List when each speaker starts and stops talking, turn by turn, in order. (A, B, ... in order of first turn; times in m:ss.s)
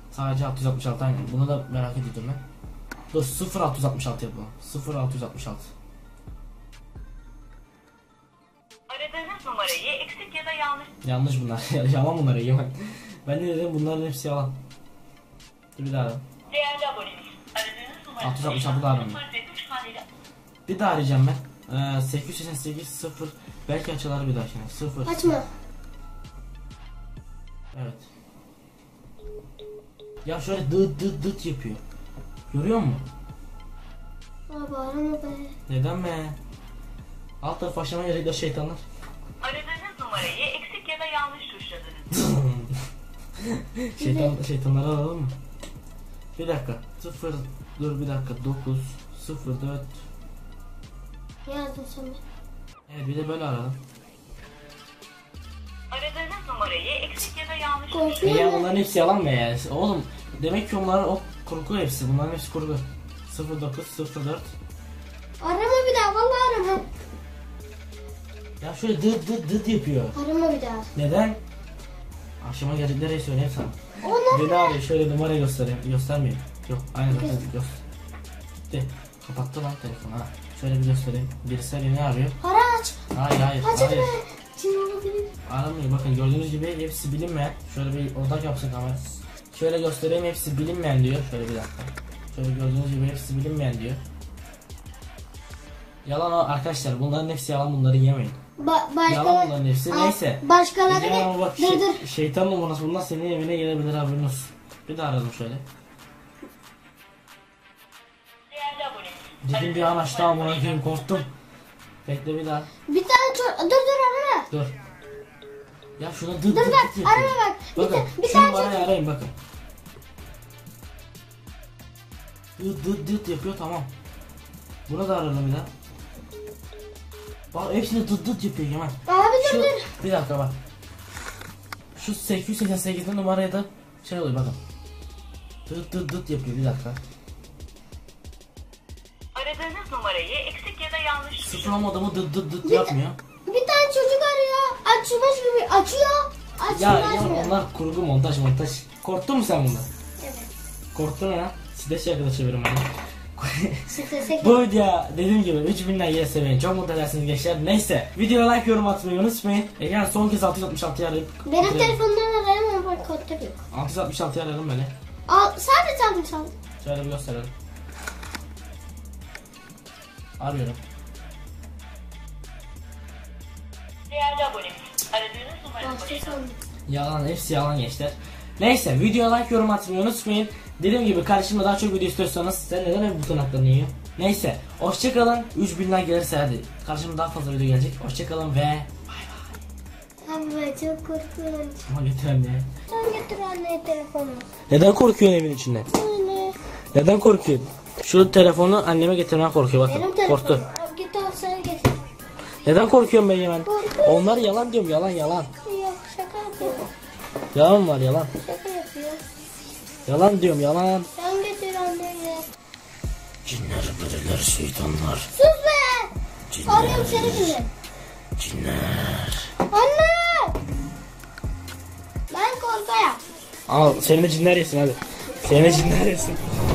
0:00.1-0:02.4 A
0:03.1-0:05.7 A
0:08.9-0:10.9 B
0:11.0-0:14.6 A
0:15.8-0:16.2 A
0:16.5-0:20.0 B
0:18.2-0:19.2 A
0:20.6-0:25.4 A
0:25.0-0:25.5 C
0:27.7-0:28.1 A
0:30.2-0:31.8 A
0:32.5-0:33.0 A
0:34.5-0:35.5 C
0:35.7-0:36.4 A
0:37.4-0:38.8 A
0:39.4-0:42.1 B
0:42.1-0:42.8 A
0:43.4-0:45.4 A
0:44.0-0:44.3 C
0:46.4-0:49.9 A
0:51.4-0:52.2 C
0:52.9-0:53.8 A
0:55.9-0:58.4 B
0:57.9-0:58.7 C
0:58.2-1:04.5 A
1:05.4-1:06.8 C
1:08.6-1:10.2 A
1:10.1-1:10.9 C
1:10.9-1:11.4 A
1:12.4-1:17.8 A
1:14.0-1:14.8 C
1:17.1-1:17.4 C
1:18.7-1:22.4 A
1:22.4-1:23.0 C
1:23.1-1:24.2 A
1:23.6-1:25.3 C
1:25.4-1:34.0 A
1:36.0-1:38.4 A
1:38.6-1:42.0 C
1:39.1-1:45.6 A
1:48.5-1:51.2 B
1:49.4-1:51.3 A
1:52.0-1:52.7 A
1:52.9-1:54.5 C
1:56.0-1:59.3 A
1:56.5-1:58.9 C
2:02.6-2:03.9 A
2:04.9-2:05.7 A
2:07.5-2:10.6 A
2:09.1-2:09.9 C
2:12.0-2:14.6 A
2:15.7-2:17.0 A
2:19.4-2:21.8 B
2:21.4-2:23.2 A
2:22.6-2:22.9 C
2:23.4-2:27.5 C
2:26.7-2:29.9 A
2:30.2-2:30.5 C
2:30.9-2:42.0 A
2:33.9-2:34.6 C
2:41.4-2:43.6 C
2:43.7-2:44.9 A
2:45.3-2:46.5 C
2:46.8-2:47.5 A
2:50.4-2:50.8 A
2:54.1-2:56.4 B
2:55.8-2:56.6 C
2:56.9-3:09.6 A
3:10.2-3:11.9 C
3:11.9-3:12.7 A
3:12.9-3:14.5 C
3:14.7-3:15.9 A
3:15.9-3:16.6 C
3:16.9-3:20.6 A
3:19.9-3:22.0 C
3:22.6-3:25.5 A
3:23.6-3:24.4 C
3:25.6-3:26.9 C
3:27.5-3:28.3 A
3:28.4-3:29.2 C
3:30.1-3:31.1 A
3:31.2-3:32.4 C
3:33.4-3:35.3 A
3:35.3-3:36.1 C
3:36.5-3:37.6 A
3:36.6-3:37.7 C
3:38.4-3:39.5 A
3:39.7-3:40.6 C
3:42.3-3:43.2 C
3:43.7-3:46.4 A